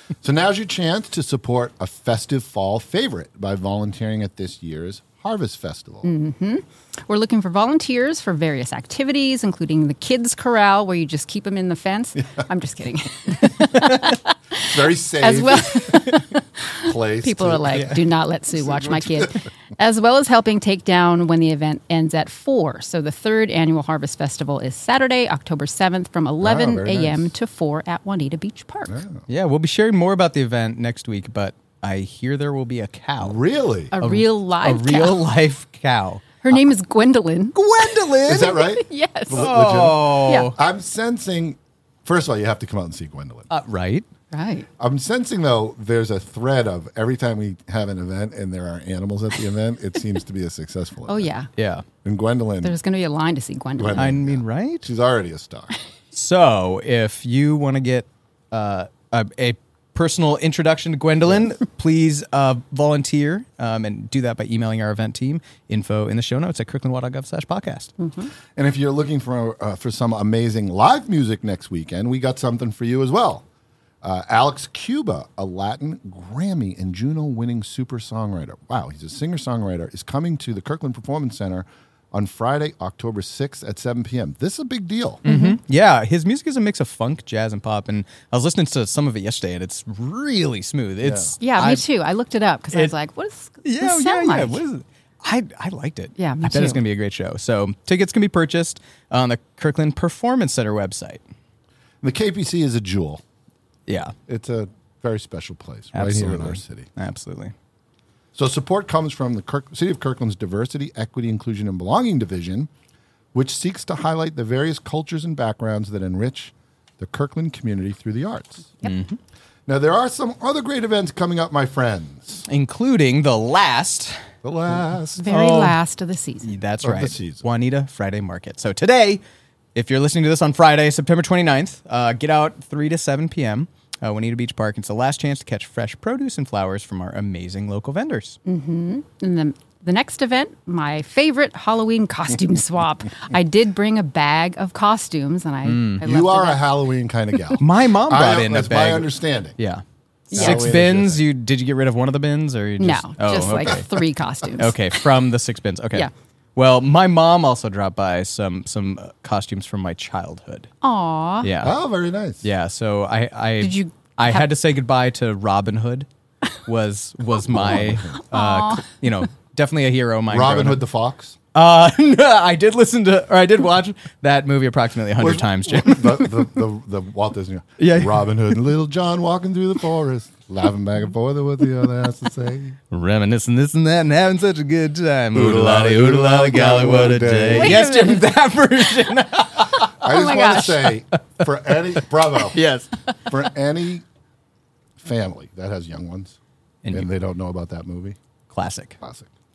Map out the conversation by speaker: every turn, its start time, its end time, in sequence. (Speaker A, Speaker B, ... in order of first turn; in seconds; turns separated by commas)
Speaker A: 0.2-6.1, Speaker B: 6.0-29.0, Speaker A: 14.6-16.2, Speaker A: 16.8-18.0, Speaker A: 18.7-19.4, Speaker A: 26.4-27.3, Speaker A: 28.9-29.2, Speaker C: 29.3-33.4, Speaker A: 33.2-34.0, Speaker B: 33.9-35.2, Speaker C: 34.0-36.5, Speaker B: 36.4-39.5, Speaker C: 37.5-38.5, Speaker A: 38.2-43.5, Speaker C: 39.4-40.5, Speaker B: 40.2-40.5, Speaker C: 43.5-44.0, Speaker B: 44.3-44.7, Speaker A: 44.8-51.3, Speaker B: 51.1-51.5, Speaker C: 51.6-51.8, Speaker A: 52.0-52.8, Speaker B: 52.6-54.1, Speaker A: 53.8-55.8, Speaker C: 54.0-54.9, Speaker C: 56.1-67.9, Speaker B: 68.0-68.3, Speaker A: 68.5-73.4, Speaker A: 74.0-85.2, Speaker C: 85.2-91.8, Speaker B: 85.3-85.6, Speaker A: 91.0-91.3, Speaker B: 91.4-94.6, Speaker C: 93.6-101.2, Speaker B: 96.2-96.8, Speaker A: 102.0-103.2, Speaker C: 103.9-104.1, Speaker A: 104.3-106.9, Speaker C: 105.9-107.5, Speaker A: 108.3-112.7, Speaker A: 113.3-118.7, Speaker C: 118.8-119.2, Speaker A: 119.7-122.4, Speaker C: 122.5-124.2, Speaker A: 124.4-125.3, Speaker B: 125.2-126.5, Speaker C: 125.3-125.8, Speaker C: 126.4-129.2, Speaker A: 126.8-127.4, Speaker C: 129.7-138.4, Speaker B: 138.4-146.6, Speaker C: 145.6-146.0, Speaker A: 146.0-149.6, Speaker C: 147.6-153.8, Speaker B: 150.3-150.6, Speaker A: 150.3-151.2, Speaker B: 152.8-154.8, Speaker C: 154.6-160.7, Speaker B: 160.8-161.5, Speaker C: 161.4-161.7, Speaker A: 161.6-162.5, Speaker C: 162.4-166.1, Speaker B: 163.6-164.4, Speaker C: 166.6-170.8, Speaker A: 167.4-168.3, Speaker B: 168.2-168.9, Speaker A: 170.3-171.4, Speaker C: 171.5-176.3, Speaker A: 175.2-182.8, Speaker C: 177.8-178.5, Speaker C: 182.9-190.1, Speaker A: 185.3-187.8, Speaker B: 187.6-188.2, Speaker A: 190.0-192.6, Speaker B: 190.1-190.9, Speaker C: 192.4-193.0, Speaker A: 193.3-194.0, Speaker A: 195.0-196.4, Speaker A: 196.9-198.2, Speaker C: 198.5-199.0, Speaker A: 199.0-199.3